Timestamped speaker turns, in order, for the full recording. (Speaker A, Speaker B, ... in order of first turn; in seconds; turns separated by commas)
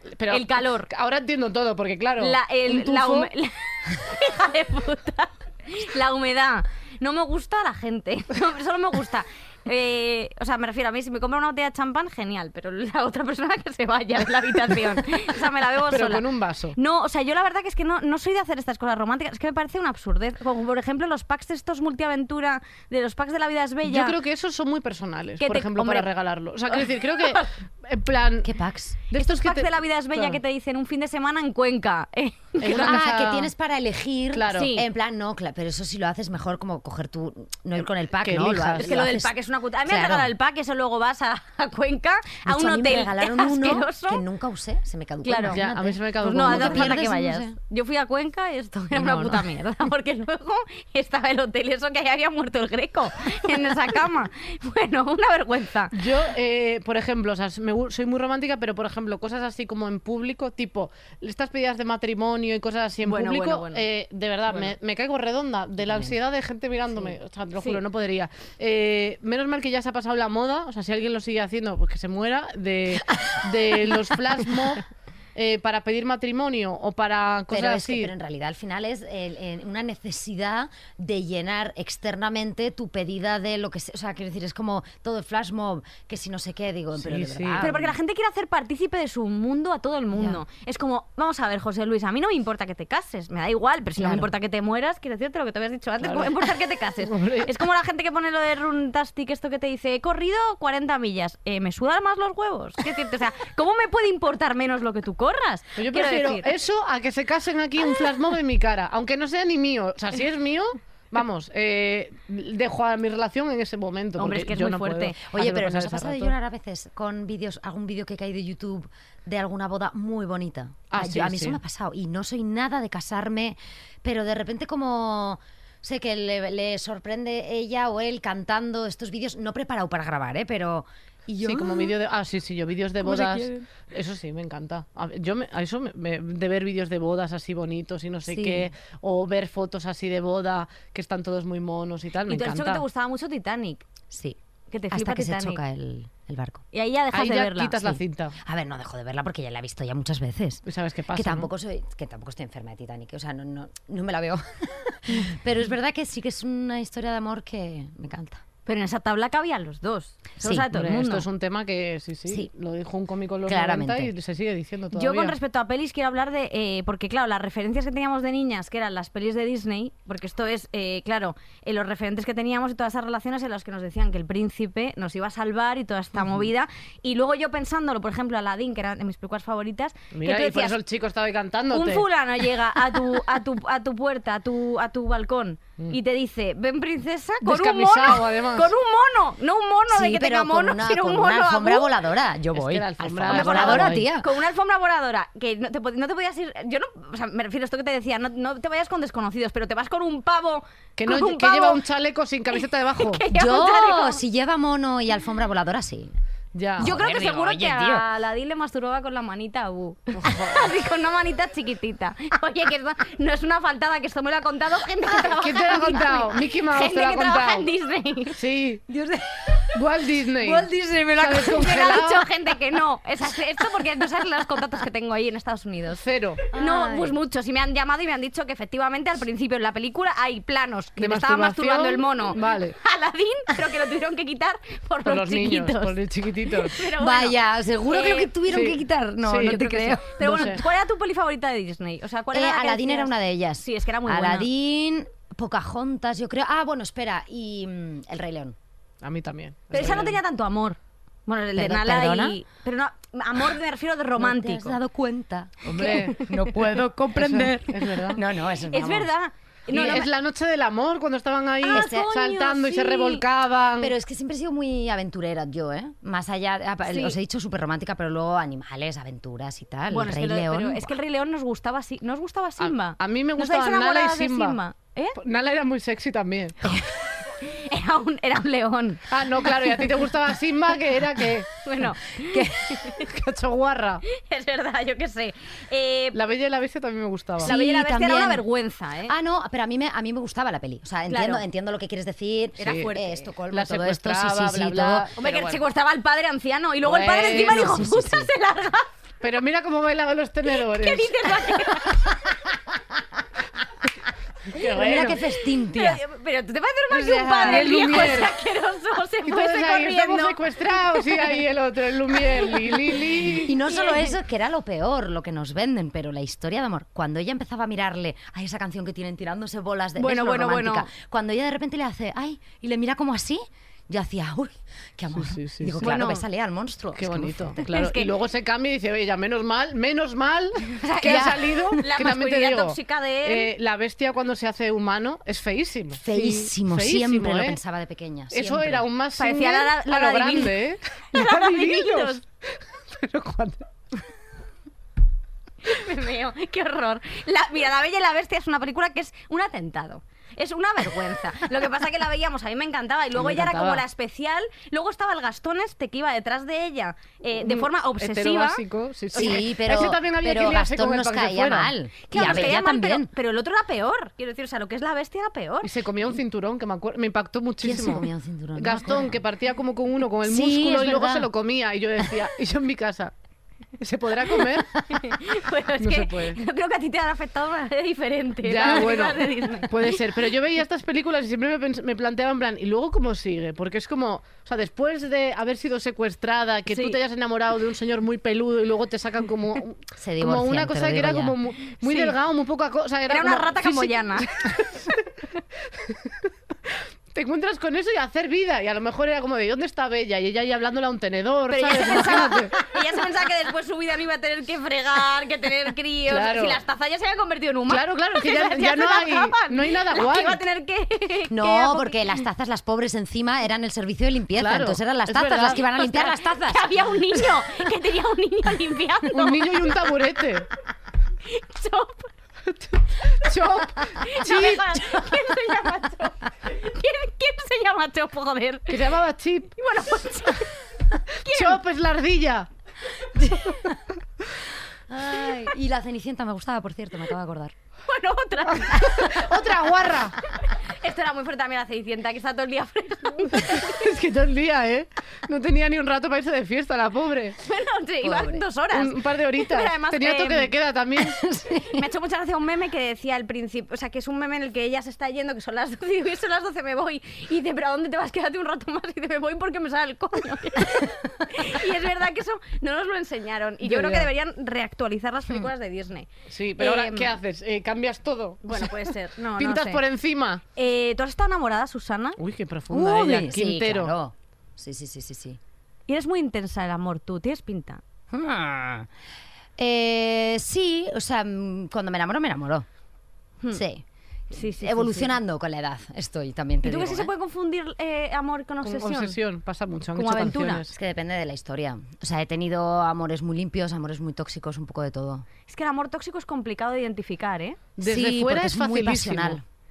Speaker A: 0.2-3.3, Speaker B: 0.3-0.9, Speaker B: 2.2-16.2, Speaker A: 15.9-16.8, Speaker B: 16.7-24.1, Speaker A: 23.9-28.5, Speaker B: 25.4-26.1, Speaker B: 26.7-27.5, Speaker C: 28.4-29.0, Speaker A: 29.1-30.4, Speaker B: 29.1-33.0, Speaker A: 32.6-33.5, Speaker C: 32.6-39.3, Speaker A: 34.3-34.7, Speaker B: 34.5-34.9, Speaker A: 38.1-39.0, Speaker B: 38.8-44.2, Speaker C: 39.9-40.3, Speaker C: 42.5-47.6, Speaker B: 45.2-45.6, Speaker A: 45.5-47.1, Speaker B: 46.2-56.1, Speaker A: 48.9-49.5, Speaker A: 55.9-78.1, Speaker B: 63.0-63.8, Speaker C: 65.9-66.1, Speaker C: 73.1-74.1, Speaker C: 77.5-87.9, Speaker A: 87.0-87.7, Speaker B: 87.6-106.5, Speaker C: 90.1-90.4, Speaker C: 94.0-94.3, Speaker A: 96.0-96.5, Speaker A: 97.0-97.5, Speaker A: 105.8-116.3, Speaker B: 114.2-115.2, Speaker C: 115.3-131.9, Speaker A: 120.9-121.6, Speaker A: 131.4-142.8, Speaker C: 133.0-133.6, Speaker C: 138.3-138.7, Speaker B: 142.3-143.8, Speaker C: 144.1-144.4, Speaker B: 144.7-145.6, Speaker C: 144.9-146.6, Speaker B: 146.7-147.8, Speaker A: 147.1-148.4, Speaker C: 147.8-158.4, Speaker A: 150.7-151.5, Speaker B: 158.7-161.3, Speaker C: 160.4-160.7, Speaker A: 160.7-165.4, Speaker C: 163.4-164.1, Speaker B: 164.9-180.8, Speaker A: 180.1-182.1, Speaker B: 181.7-191.9, Speaker A: 187.4-188.7, Speaker C: 189.9-194.4, Speaker A: 192.5-194.1, Speaker B: 193.3-201.8, Speaker A: 201.0-203.2, Speaker B: 203.0-204.2, Speaker C: 203.3-206.2, Speaker A: 206.5-206.9, Speaker C: 206.8-208.1, Speaker B: 206.8-218.4, Speaker A: 210.2-210.7, Speaker A: 215.2-217.7, Speaker A: 218.3-218.8, Speaker C: 218.9-219.8, Speaker A: 219.7-222.3, Speaker C: 220.4-221.8, Speaker B: 221.3-235.9, Speaker A: 226.0-226.4, Speaker C: 226.5-227.1, Speaker A: 231.0-232.8, Speaker A: 235.0-236.8, Speaker B: 236.5-238.3, Speaker C: 236.9-240.6, Speaker A: 238.5-239.6, Speaker B: 239.4-244.5, Speaker A: 240.2-240.6, Speaker C: 242.3-248.6, Speaker A: 249.0-250.2, Speaker B: 249.7-254.8, Speaker C: 249.8-250.1, Speaker C: 251.6-252.4, Speaker C: 254.2-259.1, Speaker A: 255.6-258.2, Speaker B: 255.7-256.2, Speaker B: 258.7-260.1, Speaker A: 259.7-263.9, Speaker C: 259.7-260.1, Speaker B: 261.6-263.2, Speaker C: 261.7-262.1, Speaker C: 263.8-270.9, Speaker B: 266.9-267.2, Speaker B: 269.9-275.2, Speaker A: 272.6-274.6, Speaker A: 275.2-276.8, Speaker B: 276.7-279.1, Speaker A: 279.1-281.5, Speaker B: 281.6-283.1, Speaker C: 282.2-282.8, Speaker A: 282.9-284.0, Speaker B: 284.1-286.2, Speaker A: 286.1-287.5, Speaker C: 287.4-288.4, Speaker B: 287.4-289.1, Speaker C: 289.1-295.1, Speaker B: 291.1-291.4, Speaker B: 292.6-293.3, Speaker A: 292.6-292.9, Speaker A: 293.5-295.6, Speaker B: 295.2-298.9, Speaker A: 296.8-297.9, Speaker C: 297.1-298.3, Speaker A: 299.2-301.6, Speaker B: 300.5-302.1, Speaker A: 304.5-305.2, Speaker C: 304.7-306.0, Speaker B: 304.8-311.4, Speaker C: 306.9-308.2, Speaker A: 307.4-308.4, Speaker A: 309.3-313.6, Speaker B: 312.1-314.2, Speaker C: 313.4-327.6, Speaker B: 320.0-320.9, Speaker A: 325.2-325.8, Speaker B: 325.8-326.2, Speaker A: 326.9-337.6, Speaker B: 327.6-328.1, Speaker C: 330.8-331.8, Speaker B: 331.8-333.5, Speaker C: 336.0-338.9, Speaker A: 338.3-343.7, Speaker B: 339.2-340.6, Speaker B: 341.1-342.2, Speaker B: 345.6-359.4, Speaker A: 353.1-353.8, Speaker A: 357.4-362.5, Speaker C: 359.1-363.1, Speaker B: 362.1-365.7, Speaker A: 365.6-373.1, Speaker C: 367.6-369.2, Speaker C: 370.2-371.3, Speaker A: 373.8-374.8, Speaker B: 374.9-380.0, Speaker A: 375.8-376.4, Speaker A: 378.4-395.1, Speaker B: 386.7-387.0, Speaker C: 390.0-391.4, Speaker B: 391.8-392.2, Speaker B: 393.1-394.4, Speaker A: 395.7-402.6, Speaker B: 401.5-412.0, Speaker A: 406.1-406.6, Speaker A: 407.7-410.4, Speaker C: 411.3-417.6, Speaker A: 414.4-415.7, Speaker B: 415.7-419.7, Speaker A: 419.1-420.5, Speaker B: 421.2-422.1, Speaker A: 422.5-425.0, Speaker B: 423.9-428.8, Speaker A: 428.7-429.6, Speaker B: 429.6-431.6, Speaker A: 431.3-432.5, Speaker C: 433.1-433.8, Speaker C: 434.9-437.6, Speaker B: 437.9-439.4, Speaker A: 438.6-440.2, Speaker C: 438.9-439.1, Speaker B: 440.3-443.9, Speaker A: 443.2-447.4, Speaker B: 447.4-450.5, Speaker C: 448.0-448.4, Speaker A: 448.7-451.2, Speaker C: 450.9-451.9, Speaker B: 451.7-467.1, Speaker A: 463.6-464.1, Speaker A: 466.3-470.4, Speaker B: 468.4-469.8, Speaker B: 470.6-472.2, Speaker A: 472.2-473.9, Speaker C: 472.7-475.4, Speaker B: 475.9-477.8, Speaker C: 478.1-478.9, Speaker C: 479.6-482.7, Speaker C: 483.5-487.1, Speaker B: 484.3-485.1, Speaker B: 486.6-489.2, Speaker A: 488.6-490.7, Speaker B: 489.9-490.6, Speaker C: 490.7-495.3, Speaker B: 495.5-497.6, Speaker A: 497.8-499.4, Speaker C: 497.8-499.4